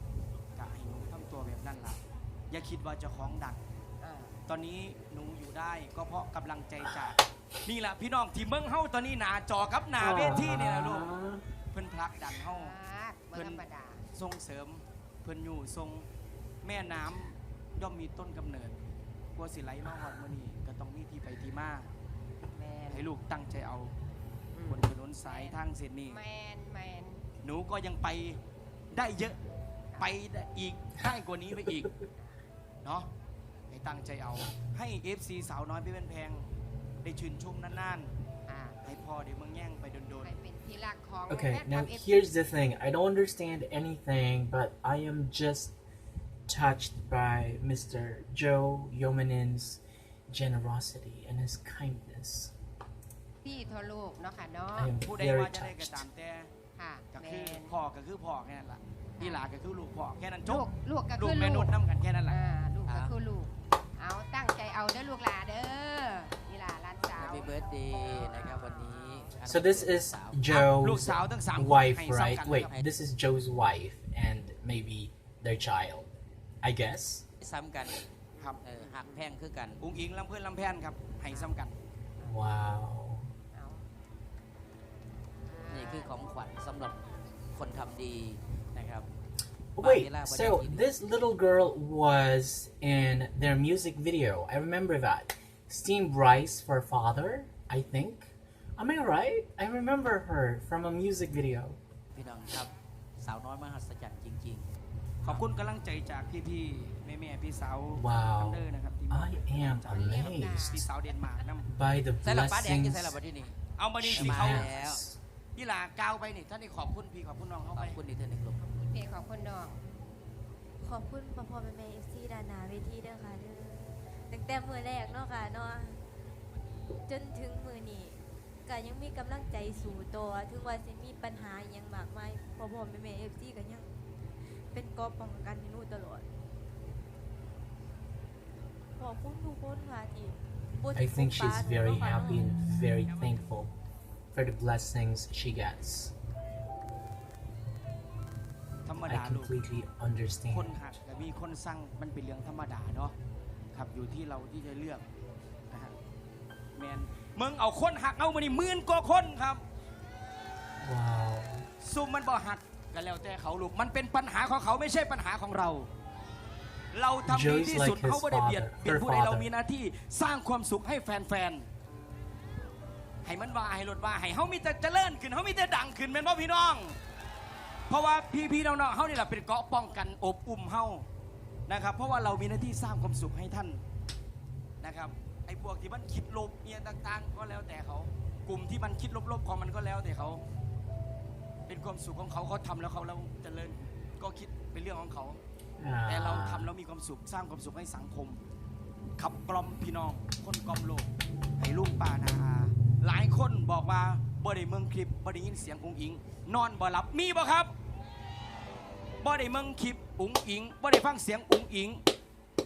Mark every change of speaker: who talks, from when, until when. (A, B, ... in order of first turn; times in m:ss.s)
0:00.6-0:03.6 A
0:04.0-0:04.3 B
0:04.5-0:11.1 A
0:10.0-0:11.5 C
0:11.7-0:12.8 A
0:12.5-0:14.0 B
0:13.4-0:13.6 A
0:14.1-0:16.1 A
0:16.6-0:18.8 A
0:19.4-0:21.9 A
0:22.6-0:23.0 B
0:22.9-0:24.0 A
0:24.5-0:27.2 B
0:24.7-0:26.2 A
0:27.4-0:28.4 A
0:28.9-0:29.4 A
0:30.0-0:31.9 A
0:31.0-0:31.9 C
0:32.8-0:33.1 A
0:33.7-0:36.5 A
0:37.0-0:38.1 A
0:38.5-0:38.8 B
0:38.8-0:40.3 A
0:40.2-0:42.3 B
0:41.3-0:45.8 C
0:46.5-0:52.5 C
0:53.4-0:54.9 B
0:54.8-0:56.0 C
0:55.0-0:56.5 A
0:56.8-0:57.7 B
0:57.1-1:02.4 A
0:59.2-0:59.4 B
1:00.5-1:01.8 B
1:02.3-1:09.4 B
1:07.2-1:10.4 D
1:09.4-1:17.3 C
1:10.5-1:12.8 A
1:17.4-1:18.0 D
1:18.6-1:19.8 D
1:18.8-1:19.2 B
1:19.8-1:21.8 A
1:22.2-1:23.3 C
1:23.5-1:23.9 B
1:25.6-1:26.1 B
1:25.7-1:27.0 D
1:27.5-1:29.1 D
1:29.8-1:41.8 C
1:29.8-1:30.8 D
1:42.1-1:44.7 D
1:45.3-1:51.7 A
1:47.9-1:50.8 C
1:49.9-1:50.8 B
1:51.6-1:53.2 C
1:52.2-1:53.6 D
1:53.8-1:54.8 A
1:54.0-1:55.2 C
1:54.1-1:55.0 D
1:55.6-1:58.0 A
1:57.8-1:58.6 D
1:58.6-1:59.8 B
2:00.8-2:06.0 E
2:07.0-2:13.9 E
2:14.7-2:16.2 E
2:19.0-2:22.5 E
2:20.9-2:23.7 C
2:24.3-2:26.2 C
2:28.8-2:29.6 A
2:29.0-2:30.8 C
2:30.5-2:33.2 A
2:33.7-2:35.1 A
2:36.8-2:39.6 A
2:40.8-2:41.7 C
2:41.8-2:45.9 A
2:46.9-2:51.7 A
2:47.2-2:49.5 C
2:53.2-2:57.0 A
2:57.9-3:01.0 A
3:01.7-3:03.8 A
3:04.8-3:10.4 A
3:11.7-3:15.4 A
3:15.8-3:16.7 C
3:16.1-3:18.4 A
3:19.2-3:27.7 A
3:29.2-3:32.0 A